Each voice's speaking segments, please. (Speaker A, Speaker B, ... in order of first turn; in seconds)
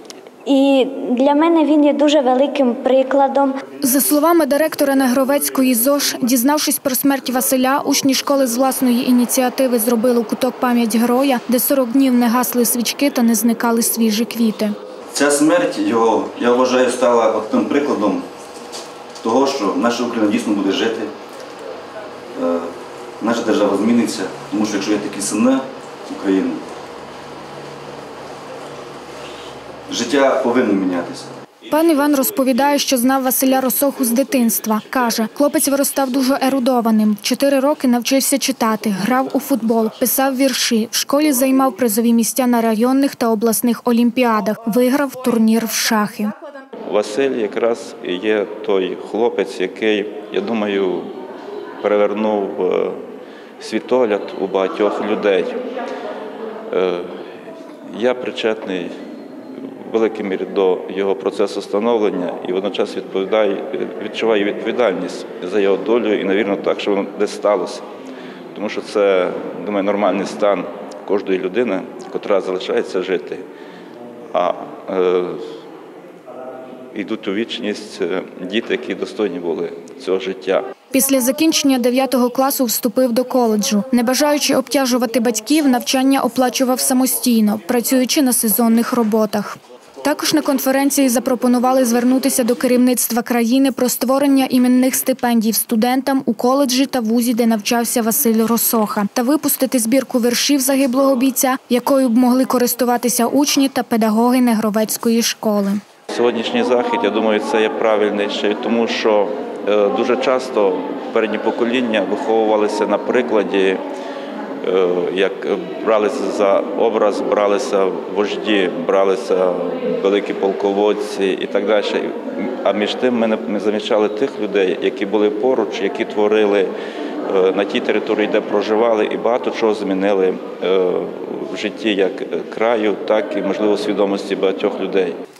Speaker A: 0.5-3.5
Speaker B: 3.8-14.7, 31.7-46.3, 80.9-105.8
Speaker C: 15.1-18.3, 19.2-21.1, 22.3-26.6, 29.9-31.3
Speaker D: 46.9-51.1, 51.8-53.0, 53.6-55.6, 56.7-57.2, 57.9-58.9, 59.8-67.8, 68.5-73.4, 74.3-75.4, 76.9-80.6, 106.1-113.8, 114.6-126.7, 127.2-135.2